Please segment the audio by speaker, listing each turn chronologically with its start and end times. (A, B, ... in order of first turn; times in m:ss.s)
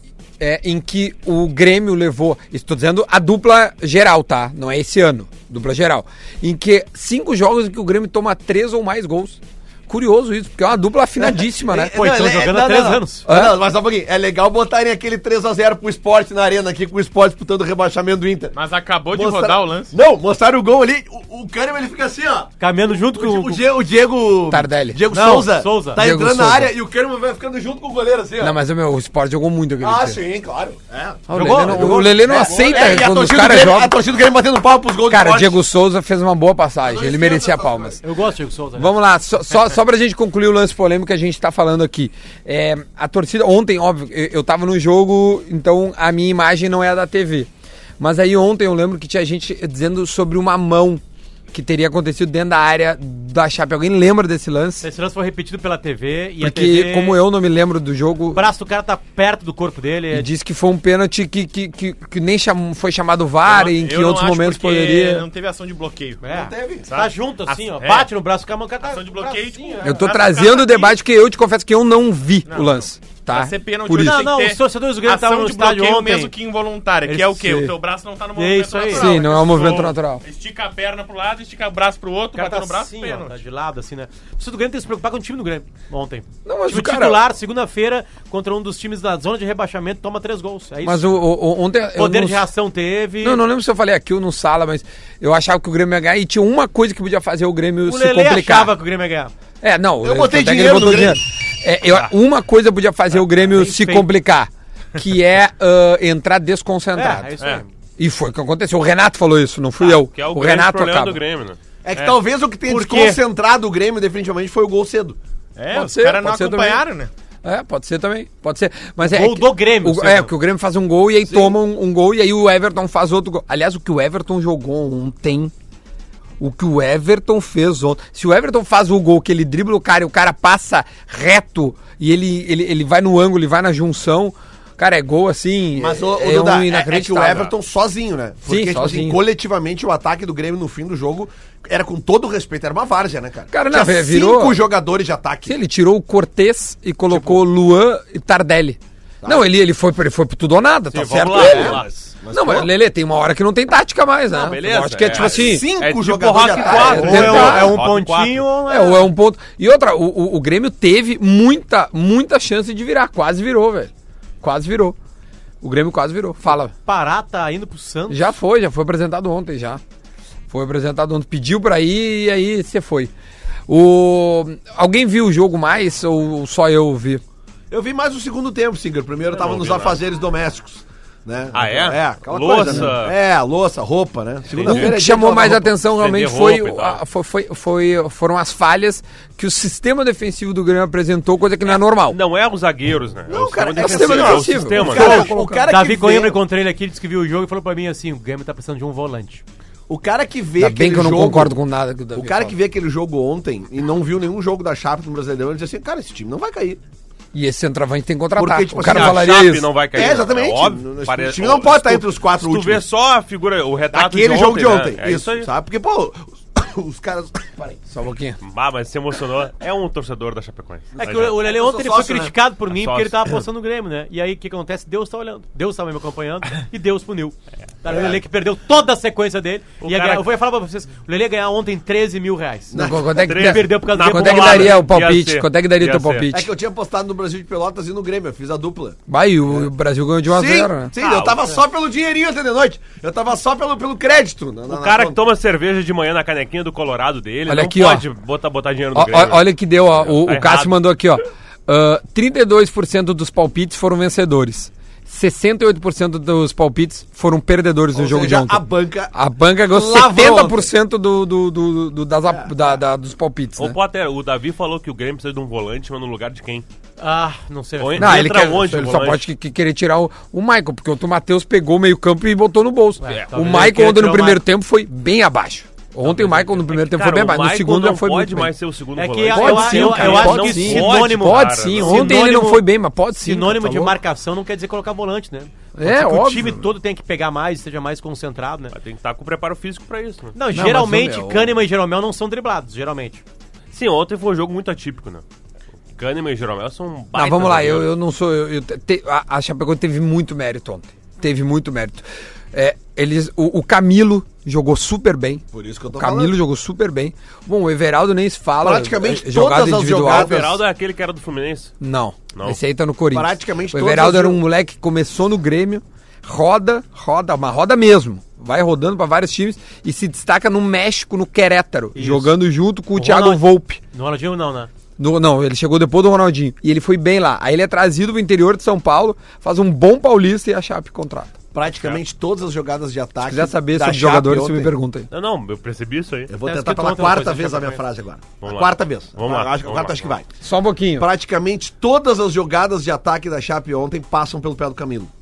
0:00.4-0:12.0 A
0:11.2-0:18.6 B
0:11.9-0:13.2 C
0:13.3-0:13.6 A
0:18.5-0:19.9 D
0:19.1-0:28.6 B
0:22.6-0:23.6 C
0:24.5-0:25.0 A
0:25.1-0:26.0 C
0:26.0-0:26.7 A
0:28.4-0:30.2 A
0:29.8-0:35.6 B
0:31.3-0:34.0 A
0:31.3-0:32.7 C
0:35.1-0:38.0 A
0:36.8-0:38.0 B
0:38.0-0:38.9 C
0:38.8-0:54.8 A
0:54.8-0:57.2 C
0:56.4-0:58.5 A
0:58.3-1:00.3 C
1:00.1-1:05.2 A
1:03.4-1:06.2 D
1:06.2-1:10.1 C
1:06.2-1:06.9 B
1:06.8-1:08.1 D
1:08.8-1:11.0 D
1:09.8-1:14.2 A
1:12.5-1:23.4 D
1:14.0-1:16.3 C
1:17.0-1:17.7 C
1:17.4-1:17.7 A
1:18.4-1:19.7 C
1:18.9-1:20.2 A
1:22.3-1:31.2 C
1:26.4-1:27.2 A
1:30.8-1:32.5 A
1:32.0-1:33.4 C
1:33.2-1:38.7 A
1:37.8-1:39.3 C
1:39.6-1:47.3 A
1:40.0-1:41.2 B
1:43.5-1:44.1 C
1:46.9-1:47.7 C
1:48.0-1:51.2 A
1:49.8-1:51.6 E
1:51.8-1:55.2 B
1:52.7-1:53.2 C
1:55.6-1:57.1 D
1:55.7-1:56.8 A
1:57.4-2:05.5 A
1:59.0-2:00.3 C
2:01.2-2:01.6 B
2:06.4-2:17.5 A
2:15.7-2:25.6 B
2:18.4-2:19.2 A
2:23.5-2:24.6 A
2:25.4-2:35.6 A
2:27.1-2:27.4 B
2:30.9-2:31.9 E
2:31.1-2:32.7 B
2:34.3-2:38.5 E
2:35.1-2:37.7 B
2:36.4-2:37.8 A
2:36.6-2:39.0 C
2:38.7-2:45.0 A
2:45.6-2:46.7 A
2:46.6-2:48.4 C
2:48.1-2:49.8 A
2:50.5-2:53.1 A
2:53.7-2:57.2 A
2:57.7-3:05.7 B
2:59.3-3:00.0 E
3:01.5-3:03.2 E
3:02.6-3:02.9 A
3:04.5-3:05.0 E
3:04.6-3:12.2 A
3:05.9-3:07.0 E
3:11.7-3:15.3 E
3:13.3-3:16.4 B
3:13.8-3:15.7 A
3:13.9-3:14.5 D
3:15.7-3:19.4 C
3:19.9-3:21.6 B
3:20.6-3:22.6 A
3:22.1-3:26.8 B
3:27.3-3:29.7 A
3:28.4-3:29.4 B
3:28.8-3:35.5 E
3:29.9-3:32.8 B
3:33.9-3:37.8 B
3:37.9-3:38.4 A
3:38.4-3:41.3 E
3:40.9-3:42.3 B
3:41.0-3:52.8 C
3:42.7-3:43.3 E
3:47.9-3:48.2 B
3:49.8-3:50.2 E
3:52.7-3:53.2 B
3:52.7-3:56.5 A
3:53.1-3:56.3 E
3:53.3-3:54.8 C
3:56.3-3:59.0 B
3:59.1-4:00.9 A
4:00.3-4:05.2 B
4:01.0-4:01.6 E
4:04.7-4:10.8 E
4:07.5-4:08.0 A
4:08.9-4:23.8 A
4:17.9-4:19.1 B
4:19.7-4:20.6 B
4:22.3-4:22.8 B
4:23.6-4:26.6 E
4:27.0-4:28.4 C
4:27.8-4:29.2 E
4:28.0-4:38.5 A
4:33.0-4:34.4 C
4:33.1-4:33.6 E
4:36.0-4:42.2 E
4:39.0-4:42.7 C
4:39.3-4:44.0 A
4:43.2-4:48.7 C
4:45.8-4:46.7 A
4:48.7-4:50.3 E
4:50.3-4:53.2 C
4:50.5-4:51.5 A
4:53.7-4:55.2 E
4:55.9-4:57.9 E
4:57.1-5:05.4 A
5:05.5-5:06.4 B
5:05.9-5:10.5 A
5:08.6-5:10.6 B
5:09.9-5:11.7 E
5:11.8-5:23.8 A
5:12.3-5:12.6 E
5:13.1-5:14.4 B
5:21.9-5:22.3 C
5:22.9-5:24.7 C
5:25.0-5:31.4 A
5:31.5-5:34.7 B
5:31.7-5:32.0 E
5:33.2-5:35.1 A
5:35.1-5:36.3 E
5:36.3-5:40.3 B
5:36.4-5:37.8 C
5:38.4-5:40.1 E
5:40.4-5:41.1 A
5:41.0-5:45.1 B